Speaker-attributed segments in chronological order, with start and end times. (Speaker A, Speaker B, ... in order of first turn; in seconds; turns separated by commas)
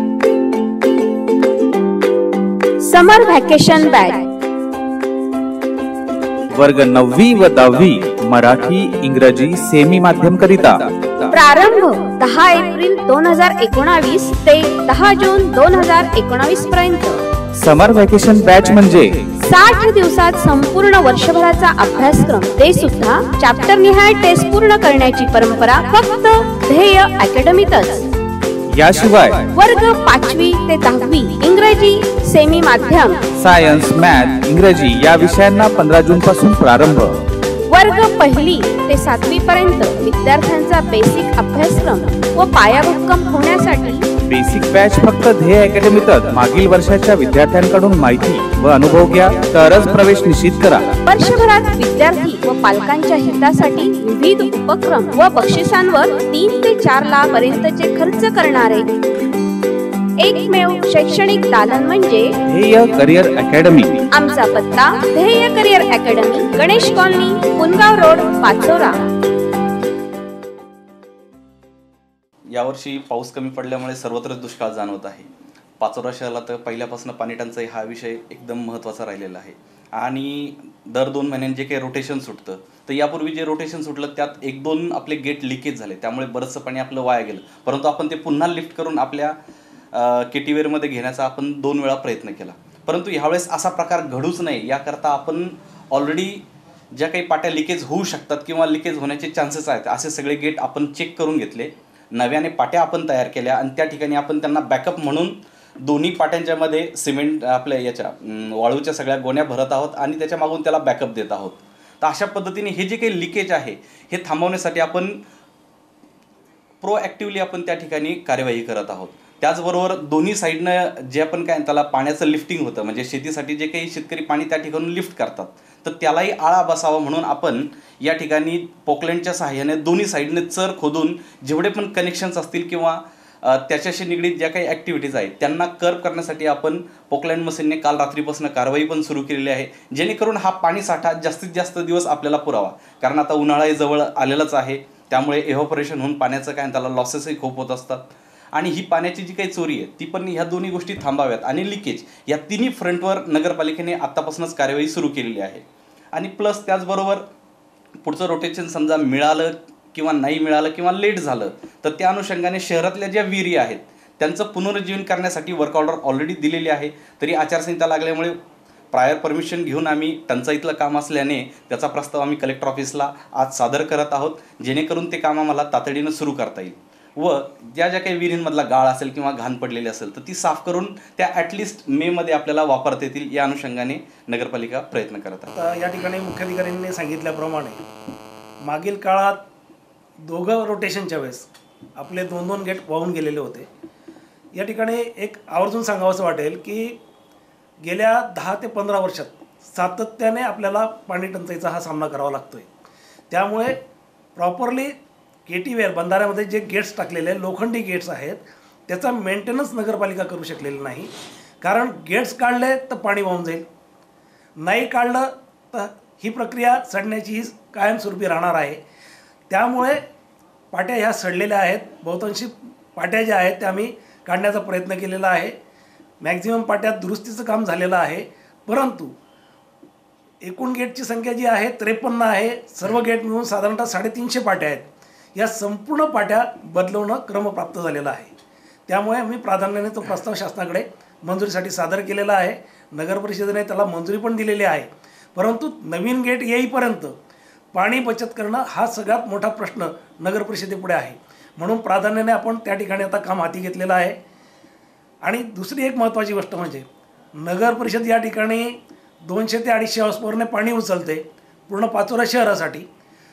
Speaker A: 2.8-4.2, Speaker B: 6.5-11.2, Speaker A: 11.3-17.2, Speaker B: 17.6-19.2, Speaker A: 19.4-28.1, Speaker B: 28.7-29.4, Speaker A: 29.5-33.2, Speaker B: 33.4-37.2, Speaker A: 37.7-44.1, Speaker B: 44.3-50.9, Speaker A: 51.0-58.9, Speaker A: 60.2-62.3, Speaker B: 62.5-64.0, Speaker A: 64.1-69.0, Speaker C: 72.5-89.4, Speaker C: 89.9-115.2, Speaker C: 116.8-157.3, Speaker C: 158.0-168.4, Speaker C: 168.9-185.5, Speaker D: 185.5-187.8, Speaker D: 188.6-189.4, Speaker D: 190.2-193.7, Speaker D: 194.5-197.0, Speaker D: 197.8-202.7, Speaker D: 203.3-203.8, Speaker D: 204.4-205.0, Speaker D: 205.5-213.7, Speaker D: 214.6-218.8, Speaker D: 219.5-220.0, Speaker D: 220.7-225.6, Speaker D: 226.2-229.1, Speaker D: 230.4-238.3, Speaker D: 238.9-247.2, Speaker D: 247.7-254.2, Speaker D: 255.2-256.9, Speaker D: 257.4-262.9